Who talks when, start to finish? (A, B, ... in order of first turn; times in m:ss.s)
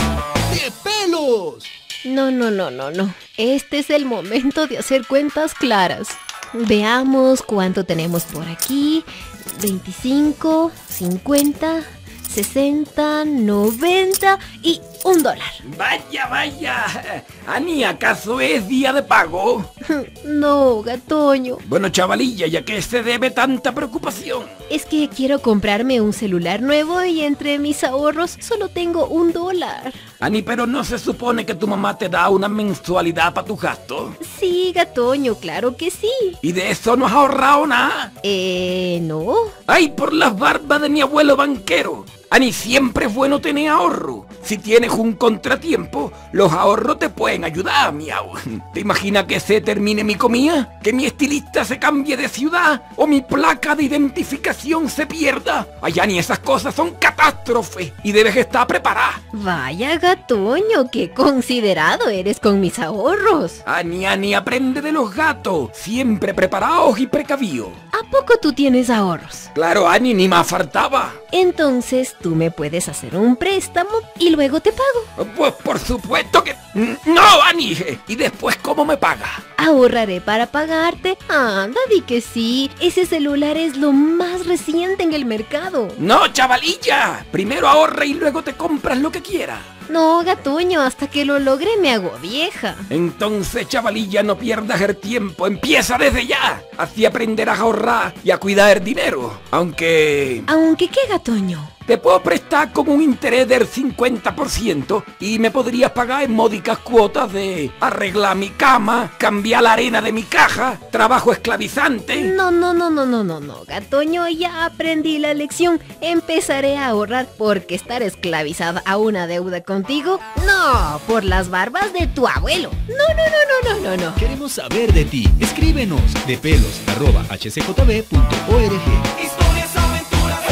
0:00.5-0:01.7 A
0:02.0-0:15.6 B
0:15.6-0:19.7 C
0:19.8-0:21.6 B
0:21.6-0:24.5 C
0:24.7-0:30.0 B
0:30.2-0:34.2 C
0:34.2-0:36.4 B
0:36.4-0:38.1 C
0:38.2-0:39.6 B
0:39.7-0:59.2 C
0:59.3-1:03.6 B
1:03.6-1:07.8 C
1:07.9-1:09.5 B
1:09.5-1:11.2 C
1:11.3-1:15.1 B
1:15.2-1:19.4 C
1:19.6-1:26.0 B
1:26.0-1:29.6 C
1:29.9-1:32.9 B
1:32.9-1:40.5 C
1:40.5-1:41.7 B
1:41.9-1:52.3 C
1:52.2-2:04.2 B
2:04.2-2:09.1 A